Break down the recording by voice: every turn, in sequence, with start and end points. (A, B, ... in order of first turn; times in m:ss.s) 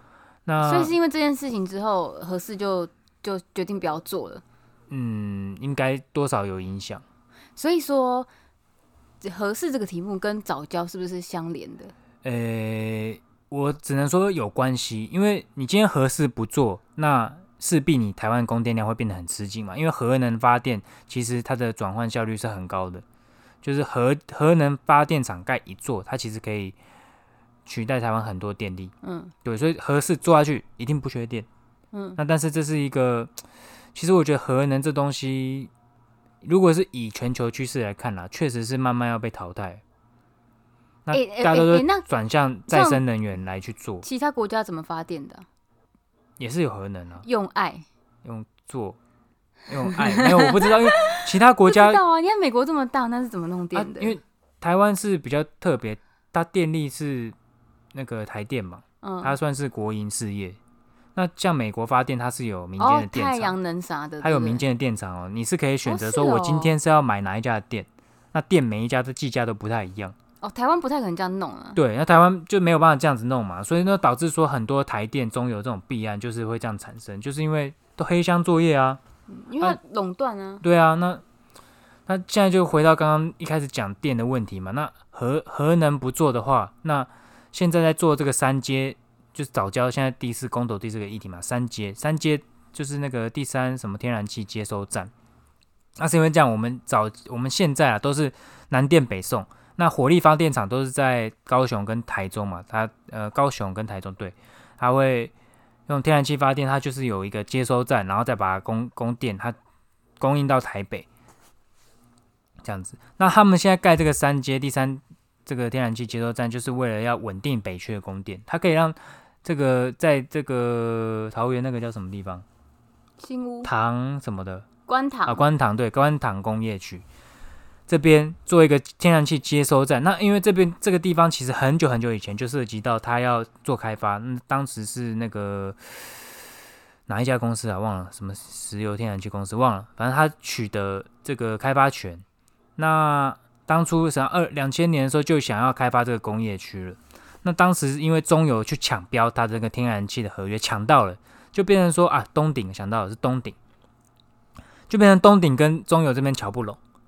0:00.4-0:01.0 A
0:00.6-0:04.4 B
0:04.9-0:07.0 A
0:07.6-0:08.3 B
0:09.2-0:11.9 B
0:12.2-0:23.0 A
0:23.6-0:26.8 A
0:27.6-0:28.9 A
0:29.0-0:29.3 B
0:29.4-0:31.5 A
0:31.9-0:32.2 B
0:32.2-0:33.3 A
0:33.9-0:35.7 A
0:36.4-0:39.8 A
0:41.0-0:44.0 A
0:41.1-0:42.0 B
0:42.7-0:43.0 B
0:44.0-0:45.4 B
0:46.4-0:47.2 A
0:47.2-0:47.8 B
0:48.2-0:49.0 A
0:49.7-0:52.0 A
0:49.8-0:54.2 B
0:53.7-0:57.3 A
0:57.9-1:00.6 A
0:59.0-0:59.4 B
1:01.1-1:03.6 A
1:02.8-1:04.6 B
1:04.2-1:10.1 A
1:05.8-1:06.7 B
1:10.4-1:11.8 B
1:11.7-1:19.0 A
1:19.3-1:20.6 B
1:20.6-1:21.2 A
1:22.1-1:35.1 A
1:36.0-1:45.3 A
1:45.9-1:49.6 A
1:50.2-1:51.1 A
1:52.6-2:02.4 A
2:03.2-2:03.7 B
2:03.6-2:04.7 A
2:04.9-2:05.4 B
2:05.2-2:07.0 A
2:07.9-2:16.2 A
2:17.1-2:22.2 A
2:22.8-2:33.6 A
2:34.9-2:36.8 A